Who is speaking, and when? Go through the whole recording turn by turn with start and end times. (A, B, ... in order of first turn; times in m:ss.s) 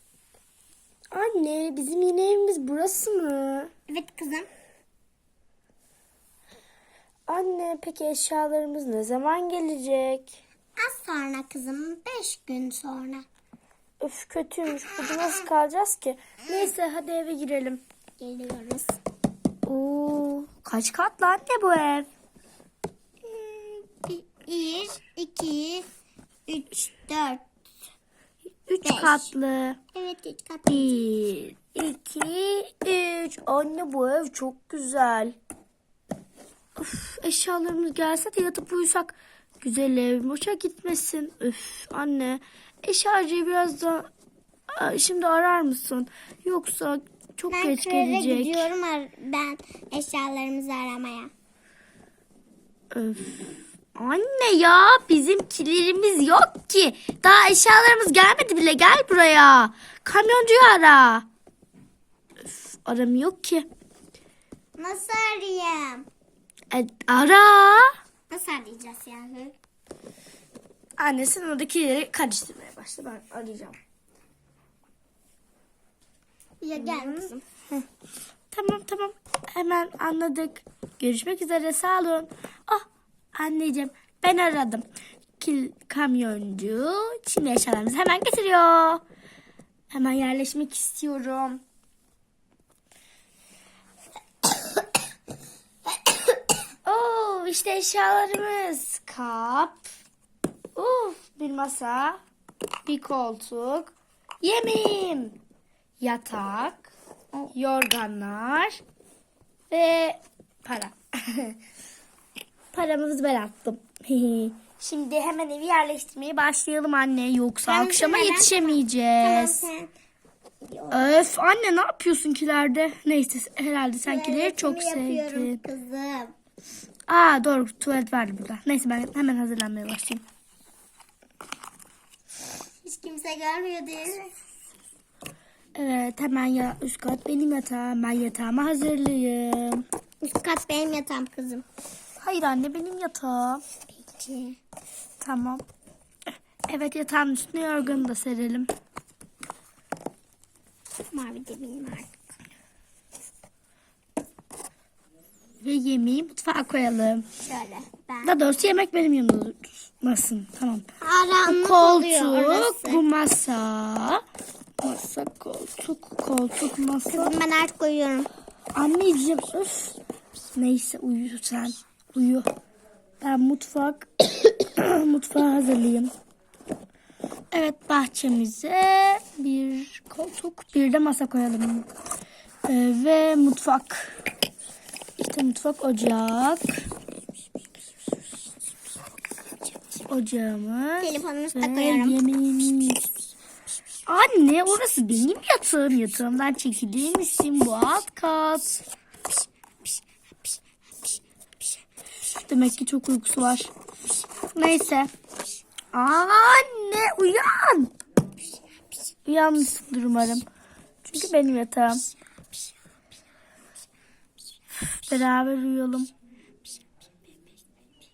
0:01.1-0:03.7 A
0:03.9-0:04.5 B
0:07.3-0:10.3 A
0:10.8-0:13.2 B
0:14.0-0:17.8 A
0:18.2-0:19.0 B
0:19.6-0:22.1 A
0:23.2-0:25.8 B
0:26.5-0:27.4 B
0:28.7-0:29.8 A
0:28.8-0:29.3 B
0:29.9-0:31.0 B
0:30.7-0:35.4 A
0:36.8-0:44.1 A
0:44.7-0:48.7 A
0:47.5-0:51.3 B
0:52.9-1:01.2 A
1:02.7-1:03.6 A
1:04.8-1:06.1 B
1:06.7-1:07.9 A
1:08.3-1:09.5 B
1:11.0-1:13.8 A
1:16.6-1:17.4 B
1:16.8-1:17.3 A
1:18.5-1:24.8 A
1:25.4-1:29.0 A
1:29.9-1:31.6 A
1:36.8-1:39.8 A
1:40.7-1:42.2 A
1:42.8-1:45.4 A
1:46.0-1:46.9 A
1:47.5-1:48.8 A
1:49.7-1:51.6 A
1:52.7-1:59.7 A
1:57.6-1:59.9 B
2:00.6-2:01.1 B
2:00.9-2:05.6 A
2:04.0-2:06.3 B
2:07.1-2:10.2 A
2:12.8-2:14.3 B
2:15.7-2:19.8 A
2:20.2-2:21.6 B
2:22.2-2:23.6 A
2:24.0-2:24.6 B
2:25.2-2:25.6 A
2:26.7-2:28.7 A
2:31.1-2:32.1 B
2:35.6-2:37.3 A
2:37.4-2:38.3 B
2:38.2-2:40.8 A
2:41.0-2:43.0 B
2:41.4-2:44.2 A
2:44.8-2:47.3 A
2:47.1-2:48.3 B
2:48.7-2:50.0 A
2:50.5-2:52.5 A
2:53.2-2:56.1 A
2:57.5-3:01.9 A
3:02.6-3:04.1 A
3:05.2-3:06.7 A
3:10.1-3:13.0 A
3:11.0-3:12.2 B
3:14.1-3:18.8 A
3:22.3-3:23.7 A
3:24.5-3:25.1 A
3:25.9-3:27.9 A
3:29.2-3:30.4 A
3:31.0-3:32.0 A
3:34.7-3:36.1 A